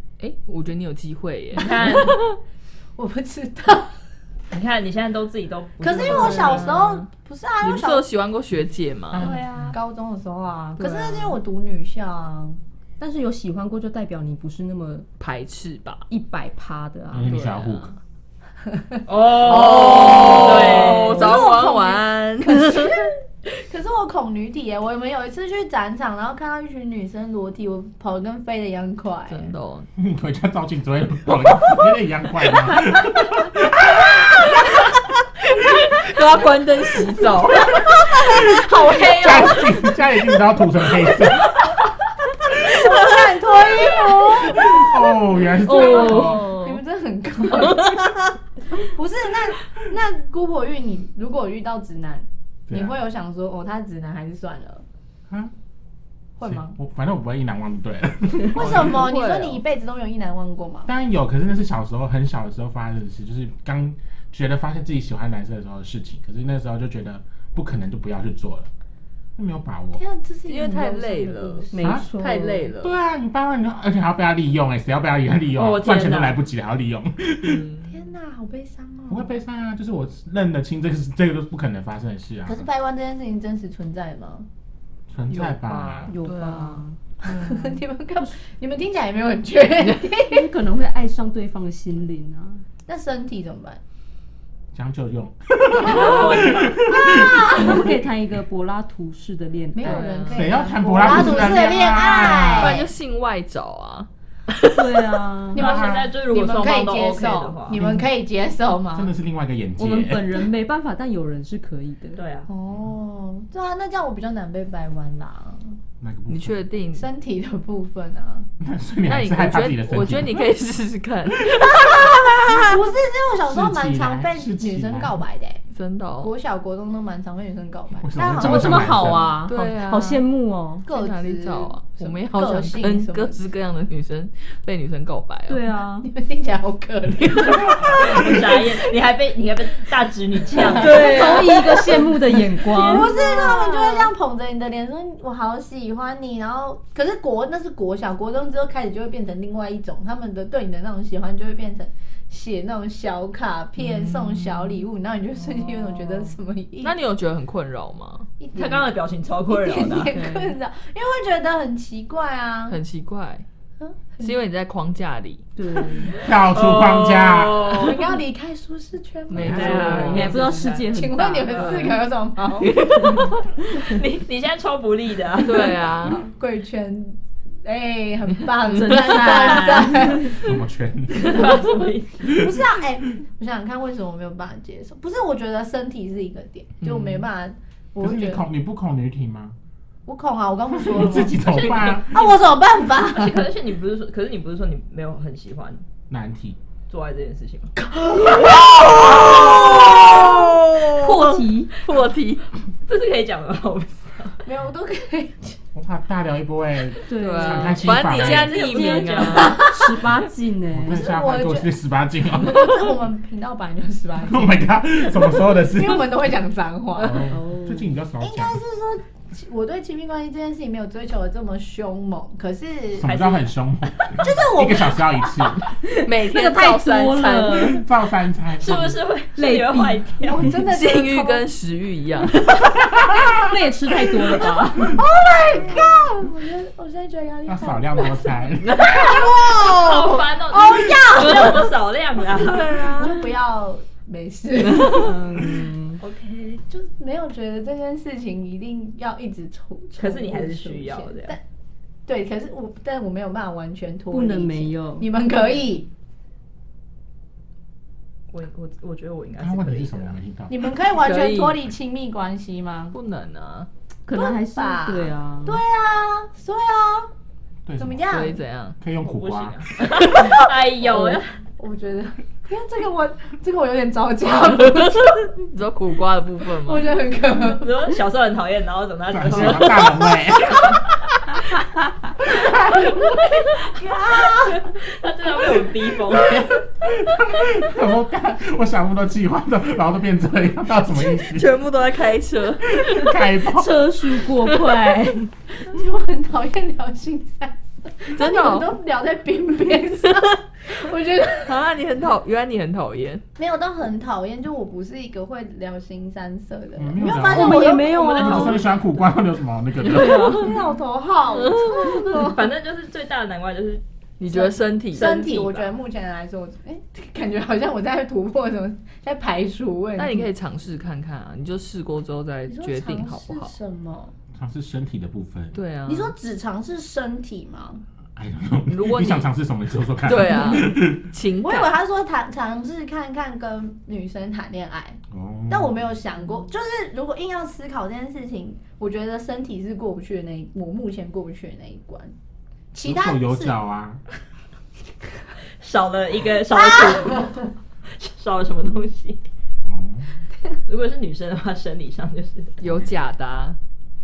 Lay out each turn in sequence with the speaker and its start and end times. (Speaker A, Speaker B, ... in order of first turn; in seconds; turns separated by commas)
Speaker A: 0.2-2.4, Speaker B: 1.6-2.2, Speaker C: 3.0-3.9, Speaker B: 4.5-6.8, Speaker C: 5.8-8.1, Speaker A: 6.0-7.1, Speaker A: 7.6-9.3, Speaker D: 9.1-9.8, Speaker B: 9.2-9.8, Speaker C: 9.7-12.6, Speaker A: 10.8-11.4, Speaker E: 13.0-15.1, Speaker A: 15.2-16.1, Speaker E: 16.1-17.4, Speaker D: 17.1-17.9, Speaker A: 17.2-18.0, Speaker C: 18.9-29.5, Speaker B: 19.1-21.4, Speaker A: 19.1-23.1, Speaker A: 29.3-29.9, Speaker D: 30.0-34.8, Speaker A: 35.5-39.9, Speaker D: 37.8-38.6, Speaker C: 38.8-39.3, Speaker D: 39.1-41.5, Speaker C: 42.6-45.0, Speaker A: 42.9-43.3, Speaker D: 44.4-46.5, Speaker E: 45.6-46.8, Speaker C: 45.7-48.0, Speaker A: 45.9-46.4, Speaker A: 47.6-48.1, Speaker C: 48.8-54.8, Speaker D: 52.7-53.0, Speaker C: 56.4-56.8, Speaker D: 56.4-59.1, Speaker C: 58.5-60.9, Speaker A: 58.5-59.6, Speaker D: 60.9-68.7, Speaker D: 69.4-70.0, Speaker C: 70.0-71.7, Speaker A: 70.5-73.0, Speaker E: 71.7-72.7, Speaker D: 71.8-72.1, Speaker D: 72.8-77.6, Speaker B: 75.5-76.4, Speaker A: 77.4-77.9, Speaker C: 77.9-79.3, Speaker D: 79.1-82.7, Speaker C: 82.5-84.5, Speaker D: 85.1-86.1, Speaker A: 85.3-86.8, Speaker E: 86.1-87.0, Speaker C: 87.2-90.5, Speaker E: 90.2-92.6, Speaker C: 92.9-93.8, Speaker D: 94.7-97.9, Speaker B: 95.8-97.0, Speaker C: 95.8-97.9, Speaker E: 97.5-100.1, Speaker C: 99.8-102.9, Speaker A: 99.8-101.5, Speaker D: 100.3-102.8, Speaker A: 102.5-105.1, Speaker E: 104.8-105.6, Speaker C: 105.5-109.1, Speaker B: 105.6-107.8, Speaker D: 105.6-106.1, Speaker D: 107.7-108.1, Speaker D: 108.9-110.4, Speaker E: 109.8-112.2, Speaker B: 112.2-112.5, Speaker C: 112.5-115.8, Speaker D: 116.0-116.6, Speaker A: 116.3-117.1, Speaker C: 116.9-118.5, Speaker D: 118.6-120.5, Speaker A: 119.1-122.8, Speaker C: 121.5-125.6, Speaker D: 123.4-125.2, Speaker A: 125.7-126.3, Speaker C: 126.2-129.2, Speaker D: 128.0-129.4, Speaker E: 128.3-130.8, Speaker A: 129.4-130.2, Speaker A: 130.9-135.6, Speaker C: 130.9-133.4, Speaker E: 135.5-136.1, Speaker C: 136.0-138.7, Speaker B: 137.7-141.8, Speaker C: 140.6-157.0, Speaker E: 140.7-143.2, Speaker A: 140.8-141.4, Speaker B: 143.2-143.5, Speaker A: 143.3-144.0, Speaker A: 153.8-154.9, Speaker A: 155.8-156.2, Speaker A: 156.8-158.3, Speaker C: 158.4-158.9, Speaker B: 158.5-160.1, Speaker C: 159.5-162.8, Speaker A: 160.1-160.5, Speaker A: 162.7-163.4, Speaker C: 163.8-164.4, Speaker A: 164.2-165.4, Speaker E: 165.6-166.2, Speaker D: 166.2-167.8, Speaker B: 166.5-167.7, Speaker A: 166.6-168.2, Speaker C: 167.7-172.7, Speaker A: 169.3-170.4, Speaker B: 169.3-170.9, Speaker D: 169.4-169.7, Speaker E: 169.6-172.0, Speaker B: 171.5-171.9, Speaker A: 171.7-172.0, Speaker A: 172.6-173.4, Speaker B: 173.1-175.8, Speaker A: 175.4-176.2, Speaker C: 176.1-180.5, Speaker A: 178.7-179.8, Speaker E: 178.8-180.0, Speaker B: 179.3-179.9, Speaker D: 180.2-181.7, Speaker B: 181.1-182.3, Speaker C: 181.4-181.6, Speaker C: 182.2-188.4, Speaker D: 182.3-182.5, Speaker A: 186.8-187.3, Speaker D: 188.0-189.6, Speaker C: 190.1-193.5, Speaker D: 190.7-192.2, Speaker B: 191.2-195.8, Speaker D: 196.1-196.6, Speaker B: 196.9-197.7, Speaker C: 197.8-199.3, Speaker A: 198.4-202.4, Speaker E: 200.9-201.7, Speaker B: 202.9-204.4, Speaker C: 204.4-205.6, Speaker D: 205.7-208.6, Speaker E: 207.1-211.0, Speaker A: 207.1-209.7, Speaker B: 208.1-209.7, Speaker C: 209.4-209.9, Speaker D: 210.7-212.8, Speaker C: 210.9-211.7, Speaker C: 212.3-217.3, Speaker D: 214.2-216.2, Speaker D: 217.0-218.6, Speaker E: 217.3-217.9, Speaker C: 218.2-223.1, Speaker D: 223.0-225.6, Speaker B: 223.0-224.2, Speaker C: 224.2-225.5, Speaker E: 225.8-227.8, Speaker A: 225.9-227.8, Speaker D: 227.7-229.0, Speaker B: 228.6-230.4, Speaker E: 229.4-230.1, Speaker C: 230.2-231.5, Speaker A: 230.5-232.6, Speaker D: 232.9-233.3, Speaker E: 233.2-235.0, Speaker C: 234.8-241.8, Speaker D: 237.5-238.9, Speaker B: 238.9-242.9, Speaker A: 242.4-243.3, Speaker C: 242.9-245.2, Speaker A: 244.6-245.4, Speaker E: 244.9-246.0, Speaker B: 246.0-246.6, Speaker C: 246.7-251.4, Speaker B: 250.0-251.4, Speaker C: 252.1-255.9, Speaker E: 254.1-255.1, Speaker B: 258.3-260.2, Speaker D: 259.4-260.7, Speaker C: 260.5-262.9, Speaker A: 260.9-261.6, Speaker A: 262.9-263.7, Speaker E: 264.1-265.6, Speaker C: 264.1-267.1, Speaker D: 267.7-268.1, Speaker C: 267.8-268.4, Speaker A: 268.1-268.8, Speaker D: 268.8-269.6, Speaker B: 269.0-271.4, Speaker C: 270.9-275.1, Speaker A: 274.7-277.0, Speaker C: 276.6-277.7, Speaker B: 277.4-280.0, Speaker D: 279.1-280.8, Speaker C: 282.5-284.8, Speaker B: 284.1-286.6, Speaker D: 286.3-291.5, Speaker A: 291.0-293.2, Speaker D: 292.7-293.9, Speaker E: 293.5-295.3, Speaker A: 294.4-294.9, Speaker C: 295.6-301.6, Speaker A: 298.1-298.7, Speaker A: 301.4-303.2, Speaker C: 303.4-308.6, Speaker D: 306.8-310.5, Speaker E: 307.2-308.7, Speaker E: 309.8-310.5, Speaker C: 310.0-312.5, Speaker A: 311.4-312.1, Speaker B: 312.1-313.8, Speaker A: 314.2-315.3, Speaker C: 314.3-320.3, Speaker B: 314.9-315.7, Speaker A: 320.0-323.6, Speaker C: 322.5-324.1, Speaker D: 324.3-325.6, Speaker A: 325.5-326.1, Speaker C: 325.9-327.8, Speaker D: 328.2-331.1, Speaker A: 328.7-329.3, Speaker A: 330.1-331.8, Speaker C: 331.4-335.0, Speaker D: 335.1-335.9, Speaker C: 335.5-342.1, Speaker C: 342.7-343.5, Speaker D: 342.8-344.0, Speaker B: 345.6-349.2, Speaker C: 346.6-347.4, Speaker D: 349.6-350.1, Speaker B: 350.7-352.6, Speaker A: 352.6-353.6